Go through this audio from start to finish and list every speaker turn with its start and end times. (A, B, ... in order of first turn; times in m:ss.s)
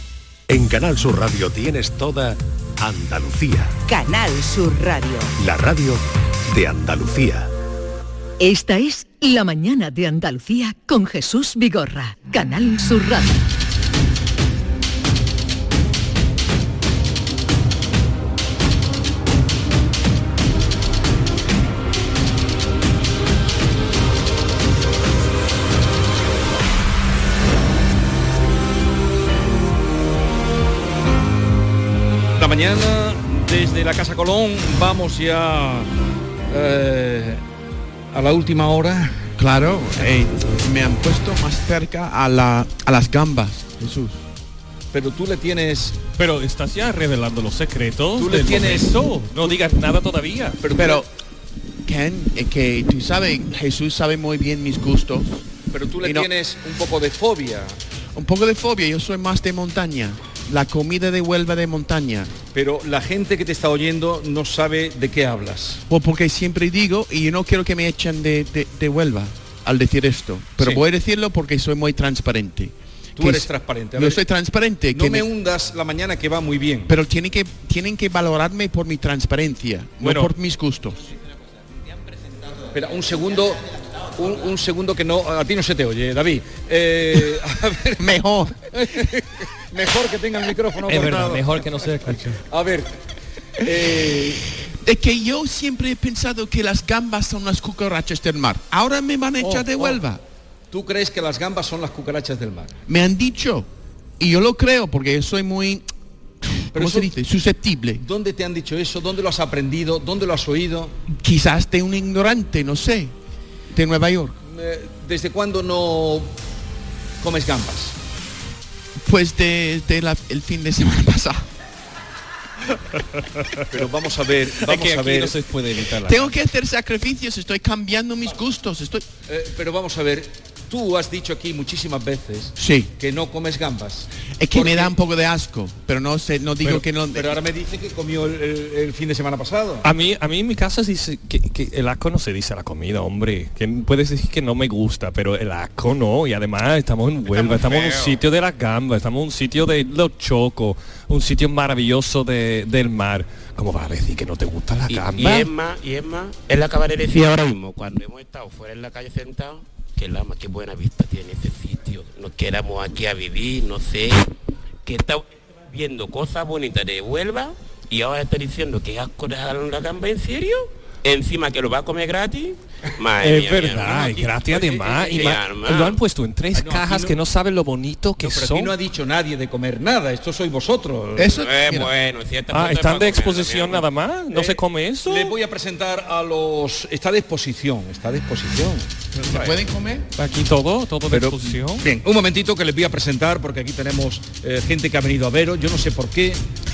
0:00.5-0:03.9 A
0:04.0-0:04.6 B
0:05.3-0:07.5 A
0:08.4-0:13.4 B
0:32.4-0:35.9 C
0:36.5-0:37.4 C
0:38.1-0:39.3 C
0:39.4-0:44.2 D
0:44.9-0:46.0 C
0:46.2-0:50.6 E
0:48.2-0:49.5 C
0:50.6-0:51.0 C
0:50.8-0:51.0 D
0:51.8-0:56.3 D
0:55.7-0:57.8 C
0:58.2-1:02.4 D
1:02.5-1:05.8 C
1:05.9-1:15.2 D
1:13.2-1:14.2 C
1:14.9-1:16.9 C
1:16.9-1:21.0 D
1:20.0-1:20.3 E
1:22.7-1:23.6 C
1:24.2-1:28.0 C
1:28.0-1:28.6 D
1:28.7-1:31.6 C
1:30.9-1:32.4 E
1:32.4-1:32.9 C
1:33.6-1:34.4 C
1:34.8-1:40.2 D
1:39.4-1:40.0 C
1:40.7-1:42.7 C
1:42.9-1:43.7 D
1:44.2-1:45.8 D
1:46.4-1:48.0 D
1:46.8-1:47.1 C
1:48.0-1:50.9 C
1:51.1-1:53.1 D
1:53.7-1:54.4 D
1:54.4-1:56.3 C
1:57.2-1:57.9 C
1:59.0-2:01.4 D
2:03.0-2:03.6 E
2:03.7-2:05.4 C
2:04.6-2:06.3 E
2:06.1-2:09.1 D
2:09.3-2:14.9 C
2:12.6-2:12.9 D
2:14.4-2:17.4 D
2:17.1-2:19.8 C
2:19.8-2:35.5 E
2:27.3-2:28.2 F
2:34.9-2:44.3 F
2:44.8-2:54.1 F
2:53.2-2:58.7 E
2:53.9-2:55.3 C
2:54.8-2:56.0 F
2:56.5-2:57.2 C
2:58.2-3:01.4 C
3:01.2-3:01.9 D
3:01.4-3:03.8 F
3:02.5-3:05.3 E
3:04.3-3:08.9 C
3:09.3-3:10.1 D
3:10.2-3:11.8 E
3:11.1-3:16.4 C